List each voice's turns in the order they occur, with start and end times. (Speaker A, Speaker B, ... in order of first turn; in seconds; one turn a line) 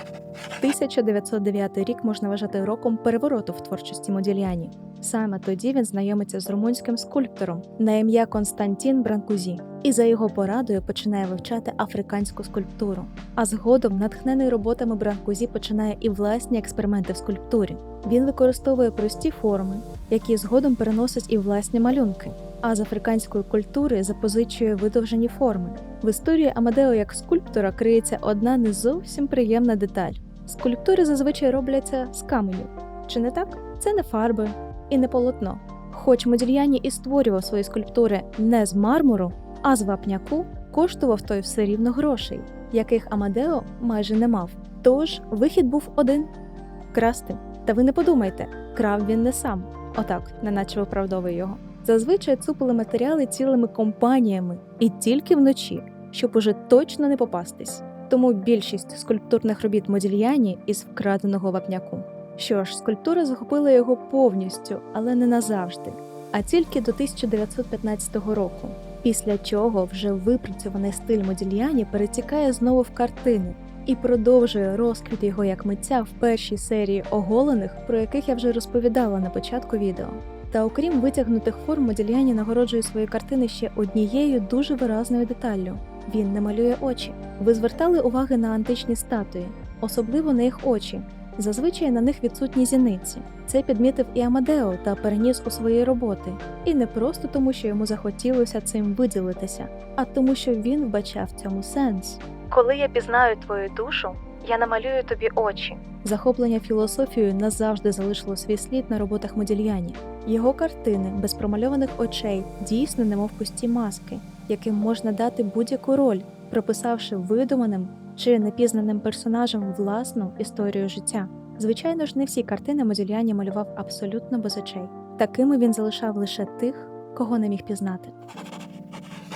Speaker A: 0.6-46.3
Speaker A: 46.9-128.1